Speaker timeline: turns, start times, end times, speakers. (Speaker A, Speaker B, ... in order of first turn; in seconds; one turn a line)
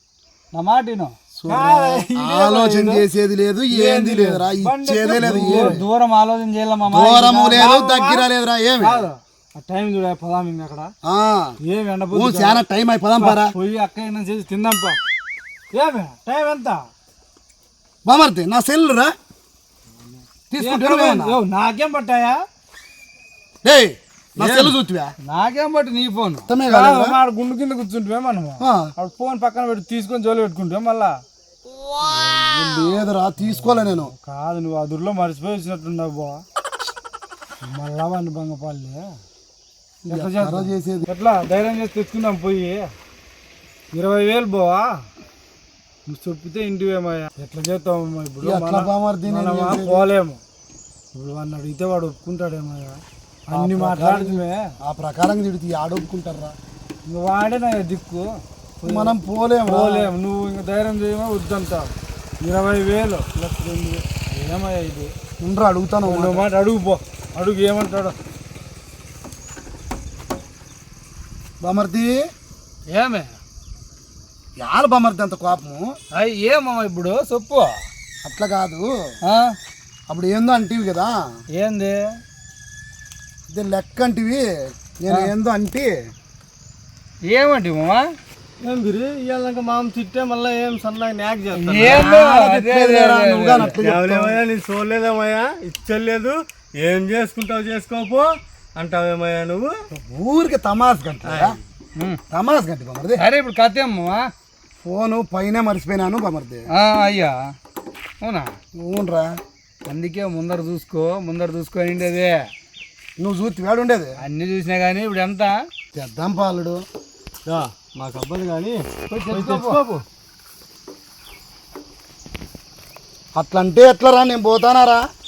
Speaker A: 0.5-1.1
Speaker B: 1.4-5.8
Speaker C: 1.5-3.0
Speaker C: 3.7-5.9
Speaker A: 5.2-7.7
Speaker B: 6.9-9.1
Speaker C: 7.5-8.3
Speaker C: 8.8-10.9
Speaker B: 11.0-11.6
Speaker C: 11.6-12.6
Speaker B: 12.1-13.5
Speaker C: 13.2-15.0
Speaker C: 15.7-16.9
Speaker B: 18.1-19.1
Speaker C: 20.1-22.4
Speaker B: 20.5-21.4
Speaker B: 23.6-25.1
Speaker C: 24.4-24.7
Speaker A: 25.3-26.5
Speaker B: 26.5-27.2
Speaker C: 26.7-31.2
Speaker B: 28.6-28.9
Speaker B: 32.5-34.1
Speaker C: 33.4-36.4
Speaker C: 37.6-39.2
Speaker B: 40.1-41.1
Speaker C: 40.1-42.9
Speaker C: 43.9-44.9
Speaker C: 46.1-50.4
Speaker B: 48.4-50.0
Speaker C: 51.1-54.7
Speaker B: 53.5-56.6
Speaker C: 57.1-58.3
Speaker C: 58.8-59.1
Speaker B: 58.8-60.1
Speaker C: 59.7-65.1
Speaker B: 65.4-66.5
Speaker C: 66.1-68.2
Speaker B: 71.6-72.1
Speaker A: 72.9-73.4
Speaker B: 74.6-75.9
Speaker A: 76.2-77.7
Speaker B: 78.2-78.9
Speaker A: 79.3-79.5
Speaker B: 80.1-81.2
Speaker A: 81.6-82.0
Speaker B: 83.5-84.5
Speaker B: 85.0-85.9
Speaker A: 87.3-88.0
Speaker D: 88.6-92.1
Speaker A: 91.5-93.8
Speaker B: 91.8-94.4
Speaker D: 93.6-99.7
Speaker B: 99.9-101.6
Speaker D: 101.2-101.6
Speaker B: 102.3-103.2
Speaker A: 103.2-104.3
Speaker B: 104.8-106.7
Speaker A: 106.7-107.4
Speaker A: 108.2-108.5
Speaker B: 108.8-109.3
Speaker A: 109.9-112.4
Speaker B: 113.2-114.2
Speaker A: 114.2-115.6
Speaker B: 116.0-116.8
Speaker D: 117.5-119.9
Speaker A: 119.1-119.8
Speaker B: 123.4-125.0